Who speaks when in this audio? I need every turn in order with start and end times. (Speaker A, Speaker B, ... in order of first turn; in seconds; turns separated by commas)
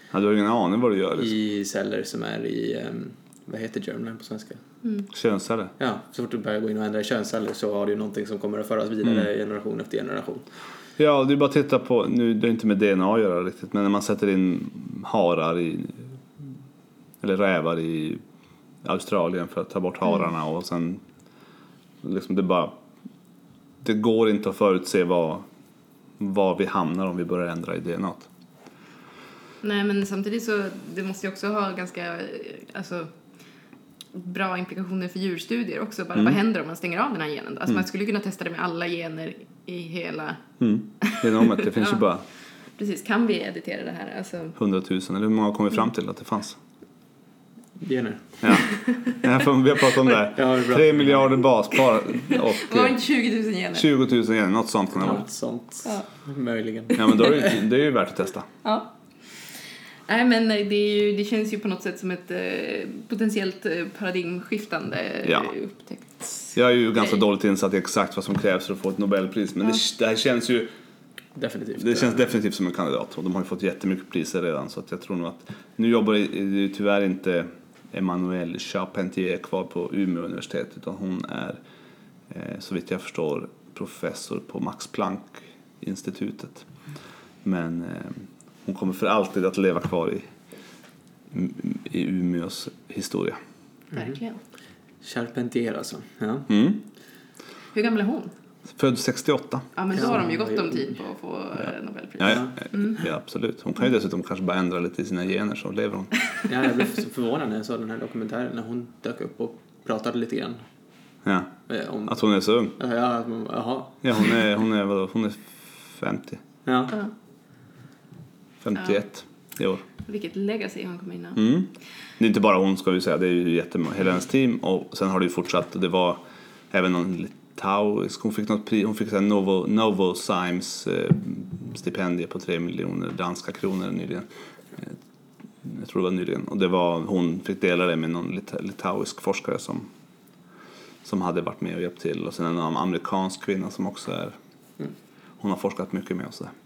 Speaker A: 0.1-1.3, Speaker B: 1.2-4.6, Speaker A: 5.1-5.7, Speaker B: 5.8-10.5, Speaker A: 11.0-16.1, Speaker A: 17.2-18.2, Speaker A: 18.8-21.0, Speaker A: 22.0-22.7, Speaker A: 23.8-25.4, Speaker A: 26.2-28.3, Speaker C: 29.6-33.1, Speaker C: 34.1-40.4, Speaker A: 40.6-42.2, Speaker C: 41.0-42.0, Speaker C: 42.8-44.6, Speaker A: 44.6-46.6, Speaker B: 47.8-48.4, Speaker A: 48.4-53.0, Speaker B: 50.2-51.4, Speaker C: 52.3-53.9, Speaker A: 53.7-55.2, Speaker B: 55.0-57.5, Speaker A: 57.0-58.5, Speaker C: 58.6-58.9, Speaker C: 60.1-67.1, Speaker A: 65.2-65.5, Speaker A: 66.5-70.7, Speaker B: 71.3-72.3, Speaker A: 71.8-81.6, Speaker A: 82.3-86.7, Speaker A: 87.4-90.3, Speaker A: 91.3-93.4, Speaker C: 93.9-94.4, Speaker B: 95.0-96.5, Speaker A: 96.5-96.8, Speaker C: 97.7-98.3, Speaker A: 98.8-99.7, Speaker C: 99.8-103.0, Speaker B: 99.9-101.0, Speaker A: 102.2-106.1, Speaker B: 106.5-110.6, Speaker A: 111.2-111.5, Speaker B: 111.7-112.2, Speaker A: 112.0-112.8, Speaker B: 112.8-114.2, Speaker A: 114.0-116.4, Speaker B: 116.6-117.0, Speaker A: 118.6-119.8, Speaker C: 120.0-121.4, Speaker A: 121.3-134.3, Speaker A: 135.6-139.9, Speaker A: 141.0-144.3, Speaker A: 145.4-146.5